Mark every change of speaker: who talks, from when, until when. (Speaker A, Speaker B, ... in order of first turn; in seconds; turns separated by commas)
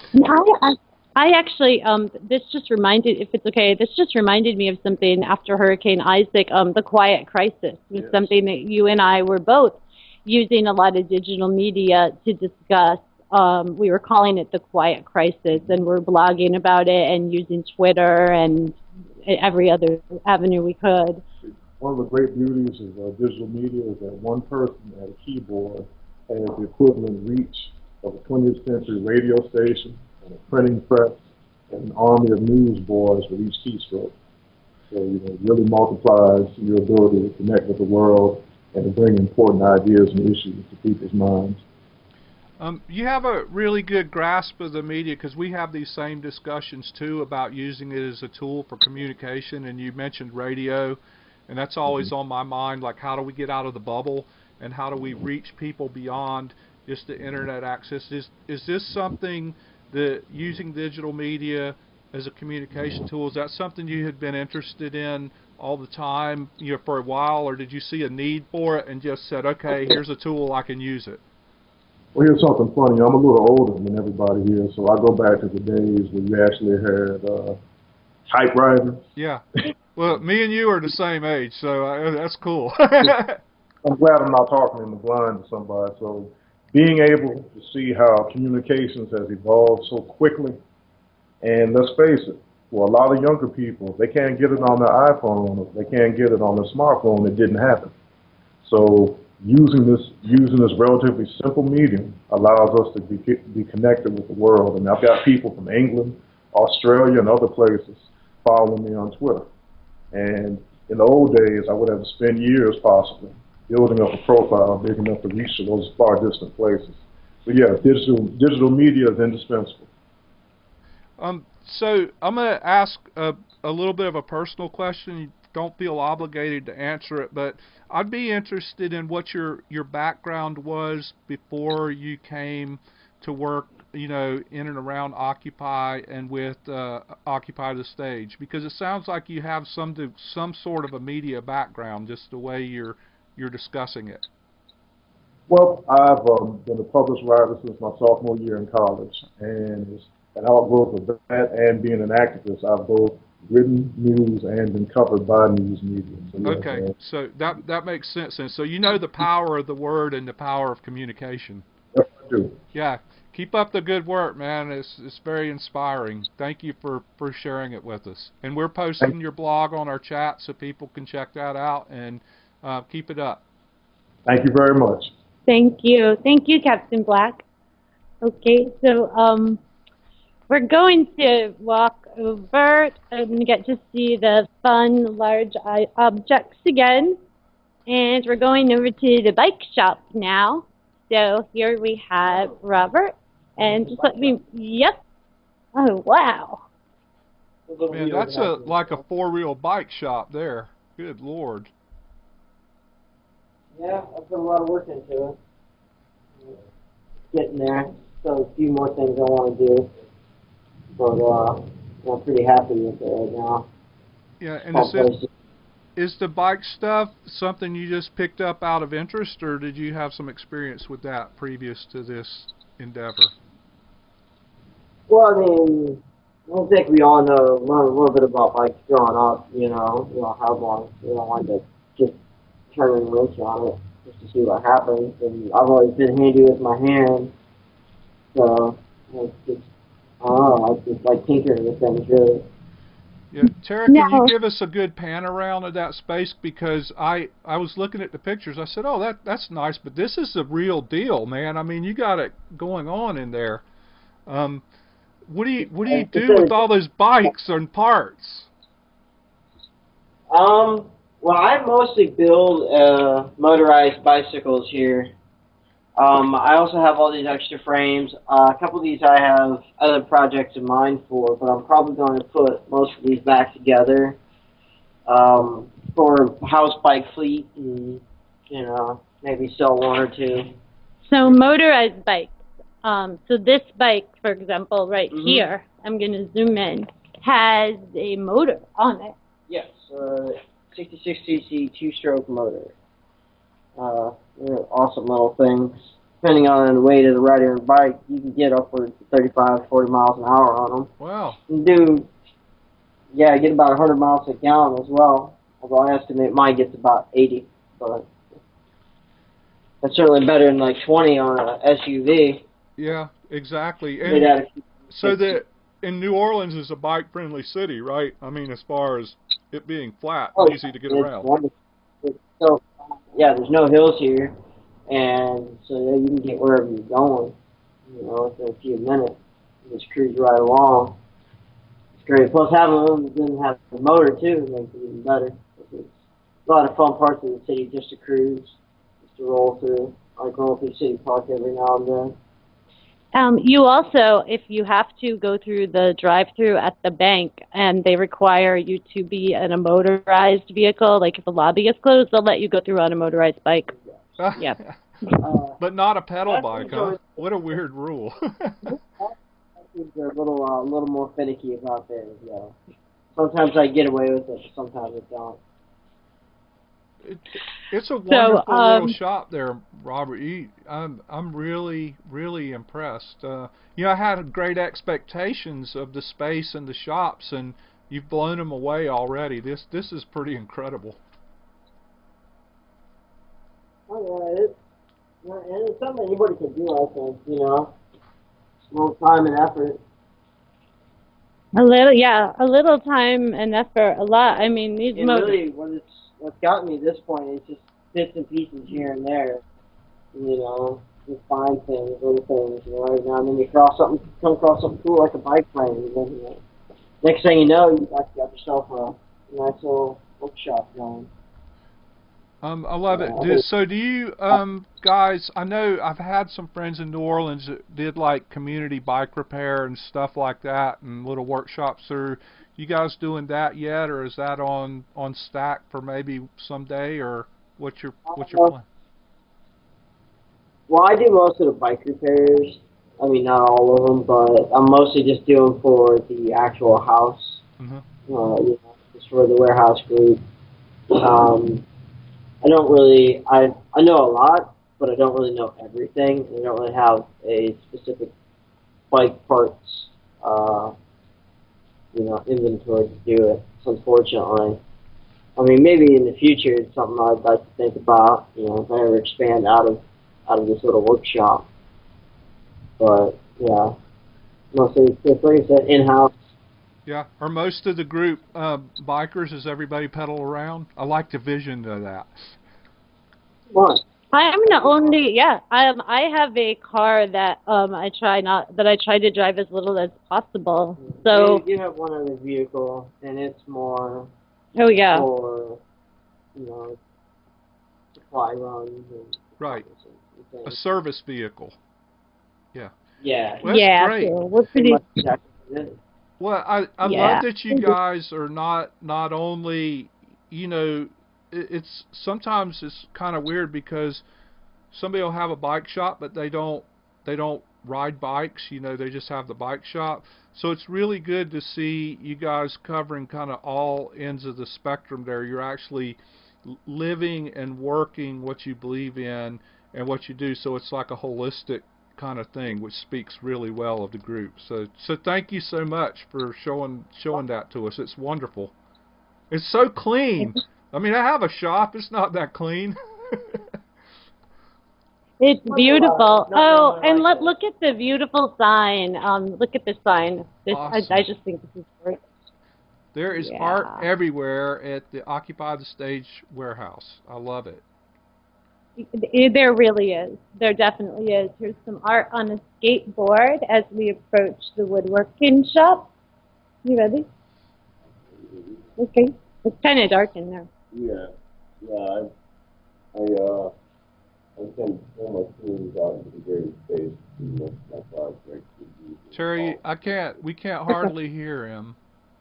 Speaker A: 0.1-21.2, Speaker B: 8.0-8.3, Speaker B: 21.4-34.1, Speaker B: 34.9-41.6, Speaker C: 42.6-71.2, Speaker B: 72.2-77.6, Speaker B: 78.3-79.1, Speaker C: 79.2-83.4, Speaker B: 83.8-90.6, Speaker B: 91.4-97.9, Speaker B: 98.6-109.5, Speaker B: 110.1-119.9, Speaker C: 121.2-144.2, Speaker B: 145.5-156.9, Speaker C: 156.4-161.6, Speaker B: 161.9-162.6, Speaker C: 162.7-173.4, Speaker B: 174.3-175.1, Speaker A: 175.5-177.4, Speaker A: 178.2-179.6, Speaker A: 180.5-187.2, Speaker A: 187.9-195.0, Speaker D: 192.3-192.6, Speaker D: 193.6-194.4, Speaker A: 195.8-196.6, Speaker D: 197.7-199.0, Speaker C: 197.9-201.7, Speaker D: 203.7-205.4, Speaker D: 207.3-209.9, Speaker D: 211.0-213.7, Speaker C: 214.4-215.1, Speaker D: 214.7-215.3, Speaker C: 216.0-223.3, Speaker D: 225.1-232.2, Speaker D: 232.7-237.3, Speaker D: 238.3-239.7, Speaker D: 240.2-242.5, Speaker C: 243.3-253.6, Speaker A: 243.9-244.3, Speaker C: 254.3-254.6, Speaker C: 255.3-258.5, Speaker D: 255.8-256.6, Speaker D: 260.3-265.1, Speaker D: 266.0-274.2, Speaker D: 275.1-280.5, Speaker A: 281.1-289.1, Speaker D: 285.1-285.5, Speaker D: 289.5-292.7, Speaker D: 293.8-300.9, Speaker C: 301.0-301.4, Speaker D: 301.5-302.1, Speaker D: 303.1-308.1, Speaker D: 309.8-312.4, Speaker C: 312.8-314.4, Speaker D: 314.0-315.4, Speaker C: 314.9-321.3, Speaker D: 320.4-324.4, Speaker D: 324.9-327.4, Speaker D: 327.9-331.0, Speaker D: 331.9-335.9, Speaker D: 336.5-342.2, Speaker A: 343.1-353.7, Speaker D: 353.7-354.1, Speaker C: 354.2-354.8, Speaker D: 355.2-355.6, Speaker C: 355.6-358.7, Speaker D: 356.3-357.5, Speaker D: 358.7-362.6, Speaker D: 363.1-365.4, Speaker C: 367.1-381.0, Speaker A: 368.1-368.9, Speaker D: 383.9-384.6, Speaker D: 385.2-387.8, Speaker D: 388.7-389.8, Speaker A: 391.6-395.4, Speaker D: 394.9-399.4, Speaker D: 400.1-406.4, Speaker D: 407.0-411.1, Speaker C: 412.4-428.6, Speaker D: 412.9-413.4, Speaker D: 428.1-428.5, Speaker D: 430.7-437.4, Speaker C: 437.6-437.9, Speaker D: 438.1-440.2, Speaker D: 440.9-441.6, Speaker D: 442.4-448.1, Speaker D: 448.9-450.8, Speaker D: 451.9-454.6, Speaker D: 455.4-461.5, Speaker D: 462.8-463.8, Speaker D: 464.5-466.1, Speaker C: 466.9-472.3, Speaker D: 473.5-473.8, Speaker A: 474.1-481.4, Speaker D: 474.5-474.8, Speaker D: 480.8-484.1, Speaker A: 484.6-485.1, Speaker D: 484.9-485.6, Speaker D: 486.4-486.8, Speaker D: 487.9-490.6, Speaker C: 489.4-489.7, Speaker C: 490.4-491.6, Speaker D: 493.0-493.4, Speaker C: 493.4-494.1, Speaker A: 493.4-494.8, Speaker D: 494.6-495.8, Speaker C: 496.2-504.0, Speaker A: 496.8-497.8, Speaker C: 504.7-528.5, Speaker C: 529.3-533.4, Speaker A: 535.2-542.0, Speaker D: 535.5-537.3, Speaker C: 540.5-541.0, Speaker C: 542.9-547.6, Speaker A: 543.2-543.9, Speaker A: 548.8-555.9, Speaker A: 556.6-557.1, Speaker E: 558.1-558.6, Speaker A: 558.8-560.5, Speaker E: 560.7-562.1, Speaker E: 562.9-563.5, Speaker E: 564.4-569.6, Speaker C: 569.1-571.8